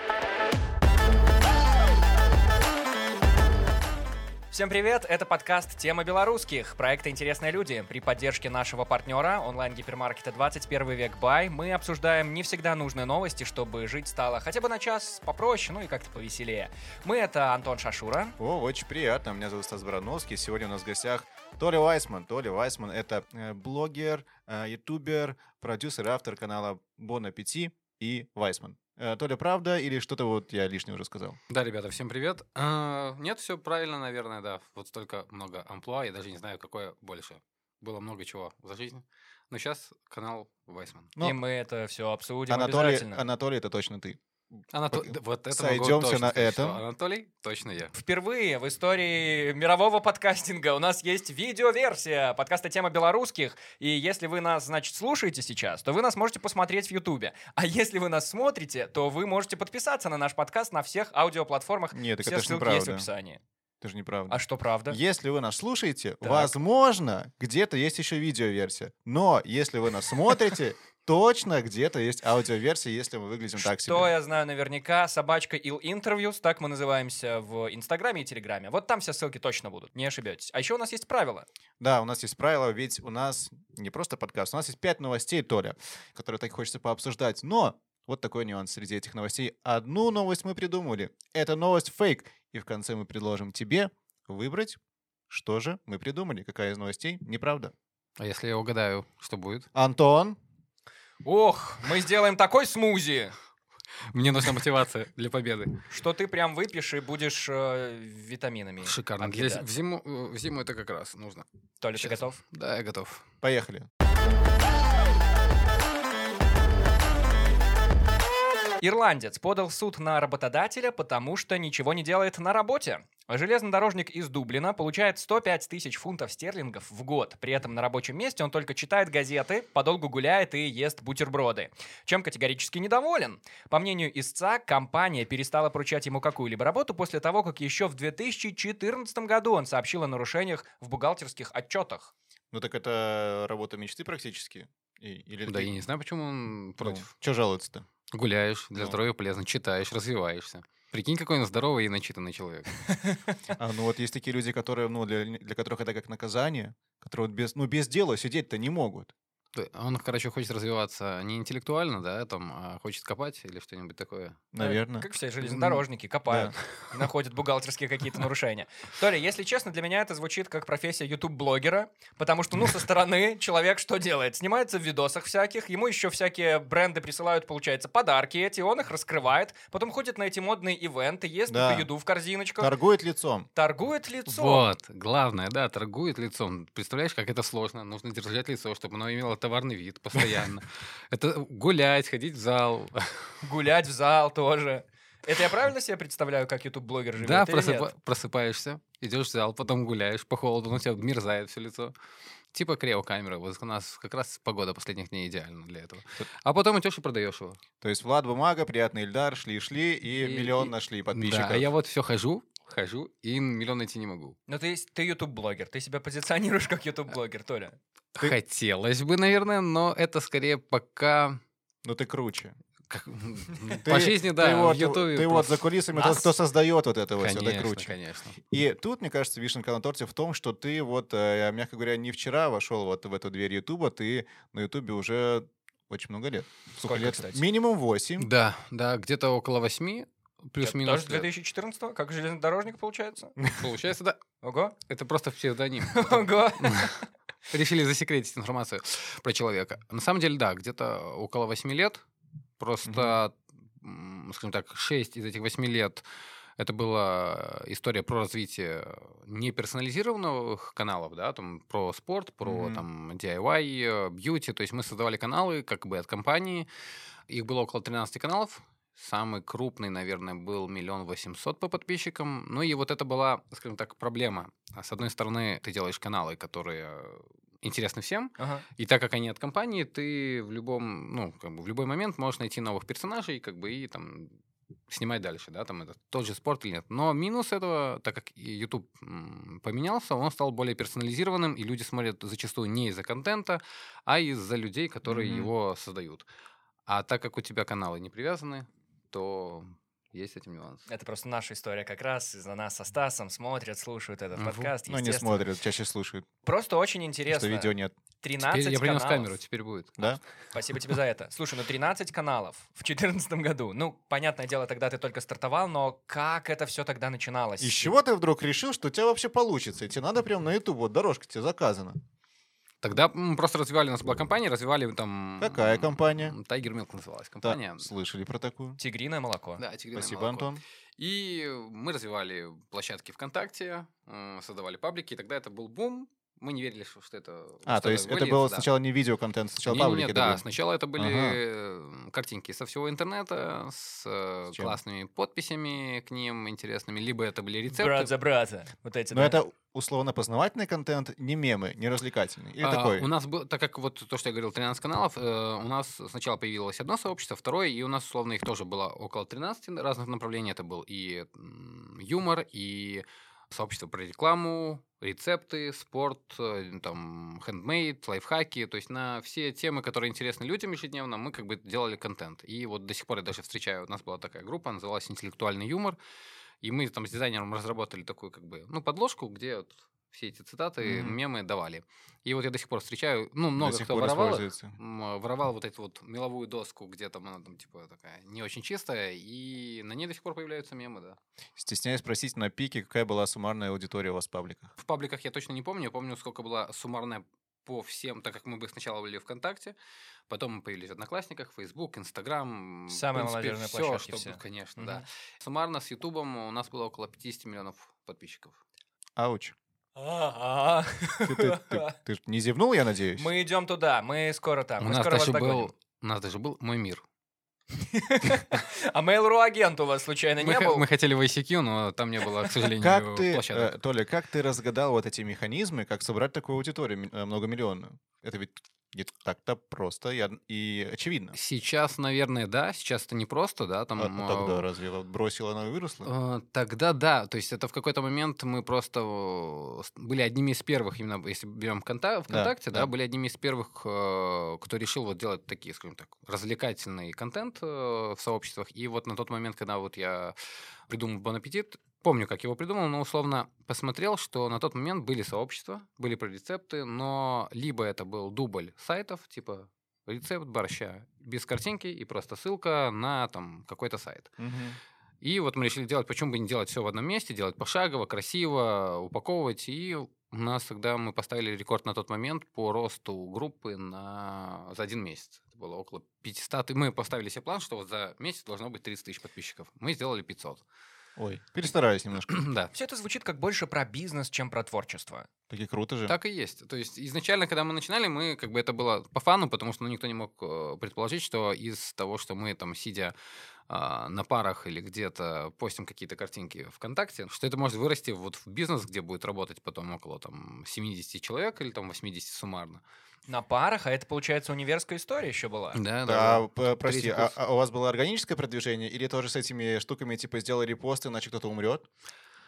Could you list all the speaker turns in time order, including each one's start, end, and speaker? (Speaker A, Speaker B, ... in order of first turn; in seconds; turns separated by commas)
Speaker A: 4.5-18.4, Speaker B: 18.4-31.4, Speaker C: 31.5-41.1, Speaker A: 41.2-43.2, Speaker B: 42.5-46.8, Speaker C: 44.7-48.0, Speaker A: 48.0-63.4, Speaker B: 61.9-63.1, Speaker B: 63.8-74.1, Speaker A: 64.3-65.0, Speaker A: 66.2-66.5, Speaker A: 73.6-81.5, Speaker B: 81.8-94.8, Speaker B: 95.3-97.7, Speaker C: 98.2-99.7, Speaker B: 99.7-100.4, Speaker A: 101.2-103.3, Speaker C: 104.1-105.8, Speaker A: 105.9-109.7, Speaker C: 108.8-113.2, Speaker A: 111.8-112.4, Speaker B: 113.4-113.9, Speaker A: 118.8-142.1, Speaker B: 142.5-145.7, Speaker C: 145.5-147.1, Speaker B: 146.8-147.9, Speaker C: 148.1-152.7, Speaker B: 153.6-159.1, Speaker C: 159.5-164.4, Speaker B: 164.5-166.5, Speaker A: 164.6-182.7, Speaker B: 181.5-181.9, Speaker B: 182.6-183.5, Speaker A: 183.6-184.7, Speaker C: 184.3-193.3, Speaker A: 193.4-197.9, Speaker C: 197.2-201.9, Speaker C: 202.5-207.6, Speaker B: 207.8-211.7, Speaker C: 210.2-214.4, Speaker A: 214.5-217.8, Speaker C: 218.2-221.4, Speaker B: 221.8-222.6, Speaker C: 222.9-225.7, Speaker B: 223.8-238.3, Speaker A: 226.0-226.3, Speaker C: 227.2-228.3, Speaker A: 236.8-237.4, Speaker C: 238.2-241.3, Speaker A: 240.6-243.4, Speaker C: 243.5-244.2, Speaker A: 244.4-244.8, Speaker C: 244.9-247.0, Speaker A: 245.9-247.0, Speaker C: 247.5-252.0, Speaker C: 252.6-256.0, Speaker B: 252.9-253.2, Speaker C: 256.6-266.7, Speaker B: 262.4-262.8, Speaker C: 267.3-284.4, Speaker A: 278.4-278.6, Speaker C: 284.9-296.3, Speaker B: 295.1-295.5, Speaker C: 296.9-300.8, Speaker A: 300.9-305.5, Speaker C: 304.4-304.7, Speaker B: 304.9-306.3, Speaker A: 306.4-309.3, Speaker B: 307.3-307.9, Speaker C: 308.4-310.1, Speaker A: 310.5-317.9, Speaker B: 317.6-322.0, Speaker C: 322.8-327.9, Speaker B: 325.4-326.4, Speaker B: 327.4-328.8, Speaker A: 328.8-329.6, Speaker C: 329.6-338.7, Speaker B: 329.9-330.6, Speaker B: 337.7-340.4, Speaker C: 339.6-348.1, Speaker B: 341.0-341.4, Speaker B: 344.5-344.8, Speaker A: 347.7-349.4, Speaker B: 349.1-353.1, Speaker C: 352.6-376.0, Speaker C: 376.6-391.2, Speaker B: 380.8-381.2, Speaker B: 383.6-384.8, Speaker B: 391.6-394.7, Speaker C: 394.8-399.8, Speaker C: 400.3-408.6, Speaker A: 402.9-405.0, Speaker B: 409.2-409.6, Speaker A: 410.0-411.9, Speaker B: 411.2-413.3, Speaker A: 413.2-415.7, Speaker C: 414.8-417.0, Speaker A: 417.8-420.9, Speaker C: 420.4-423.8, Speaker B: 422.8-431.4, Speaker C: 431.3-434.7, Speaker B: 434.0-436.1, Speaker C: 436.1-450.4, Speaker B: 442.3-442.9, Speaker C: 450.9-464.4, Speaker B: 464.4-464.8, Speaker C: 465.2-480.6, Speaker B: 481.2-482.4, Speaker C: 482.3-482.7, Speaker A: 482.7-485.3, Speaker B: 485.5-486.1, Speaker C: 486.1-493.1, Speaker C: 493.7-502.8, Speaker A: 503.3-505.8, Speaker C: 505.7-507.4, Speaker B: 506.1-511.9